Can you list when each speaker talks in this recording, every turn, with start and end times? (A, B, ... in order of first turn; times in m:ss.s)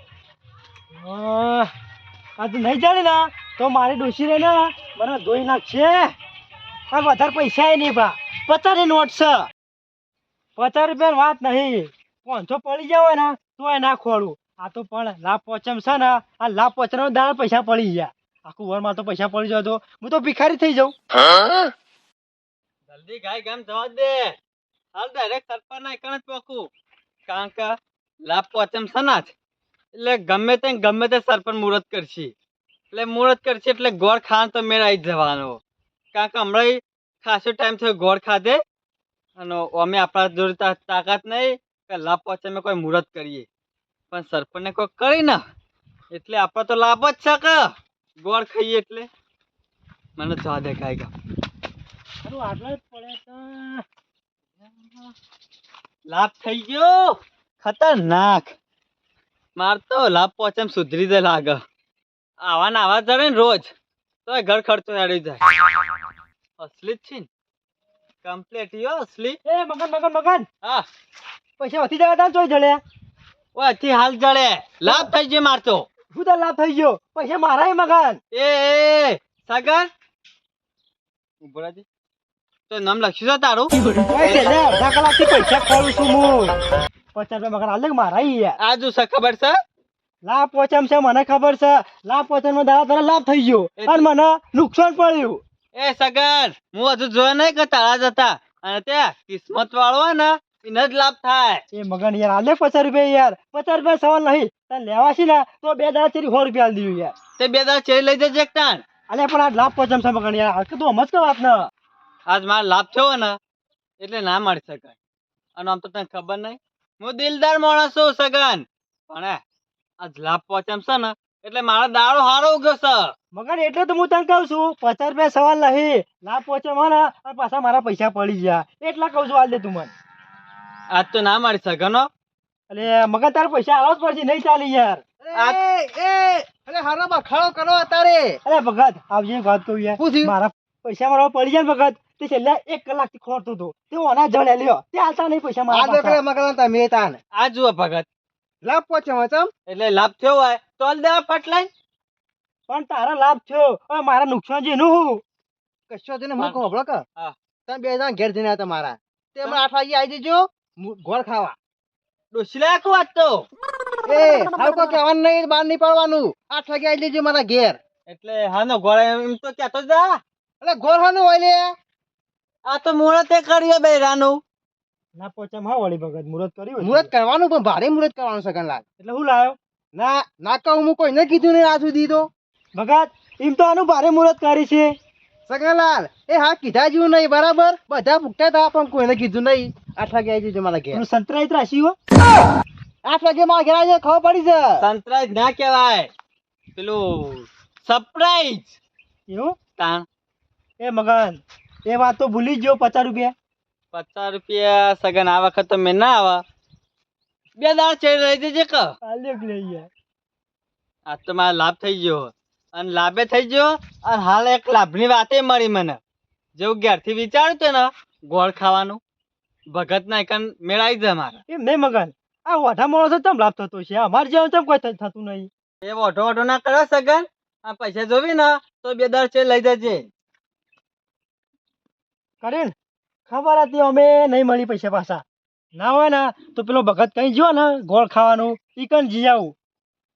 0:00.9-0:01.7 A
0:02.4-0:06.1 A
0:06.9-0:09.5 A
0:10.6-0:21.0 A
0:22.9-0:24.4 B
0:25.0-0:26.7 B
0:27.3-0:29.3 B
0:30.0-0:32.3 B
0:32.9-0:35.6 B
0:36.1-0:38.6 B
0:39.4-0:43.5 B
0:44.1-0:45.4 B
0:46.1-0:49.1 B
0:50.2-0:51.1 B
0:52.2-0:53.8 A
0:54.8-0:55.1 B
0:56.1-0:58.6 B
0:59.6-1:01.6 B
1:02.4-1:03.7 B
1:04.3-1:05.4 B
1:06.6-1:07.3 B
1:08.2-1:09.4 B
1:09.5-1:10.5 A
1:11.6-1:12.8 A
1:13.6-1:15.9 B
1:16.1-1:18.2 A
1:18.3-1:19.9 B
1:21.4-1:21.8 B
1:22.7-1:23.7 B
1:24.1-1:26.6 A
1:27.2-1:28.6 A
1:28.6-1:29.6 B
1:30.3-1:35.4 A
1:33.8-1:34.1 B
1:35.8-1:41.6 B
1:41.8-1:47.1 A
1:47.4-1:48.8 B
1:49.1-1:51.7 A
1:52.3-1:53.4 B
1:54.0-1:55.0 B
1:55.6-1:59.4 B
2:00.0-2:03.1 B
2:03.4-2:09.9 A
2:10.9-2:12.1 B
2:12.7-2:15.0 A
2:15.2-2:18.4 C
2:15.3-2:15.6 B
2:18.4-2:26.2 A
2:20.0-2:20.3 C
2:25.7-2:27.2 C
2:27.3-2:28.1 B
2:28.6-2:29.5 C
2:29.7-2:31.7 B
2:32.7-2:35.2 A
2:35.9-2:37.0 C
2:37.7-2:41.6 C
2:42.3-2:43.5 B
2:44.1-2:47.8 C
2:48.1-2:50.2 B
2:50.6-2:51.6 C
2:52.7-2:54.4 B
2:55.2-2:57.1 A
2:56.8-2:58.8 C
2:59.0-2:59.6 A
3:00.0-3:02.3 C
3:02.8-3:05.0 A
3:05.5-3:11.0 C
3:11.0-3:12.0 A
3:13.0-3:14.9 C
3:14.8-3:16.1 B
3:16.8-3:18.8 B
3:19.3-3:19.6 A
3:19.8-3:20.1 B
3:20.8-3:23.3 A
3:23.9-3:26.4 B
3:27.6-3:29.0 B
3:29.1-3:29.9 A
3:31.1-3:36.0 B
3:36.6-3:39.0 B
3:39.7-3:41.4 B
3:41.5-3:45.5 A
3:45.8-3:50.1 B
3:52.4-3:52.7 A
3:53.3-3:55.2 A
3:55.8-3:59.6 A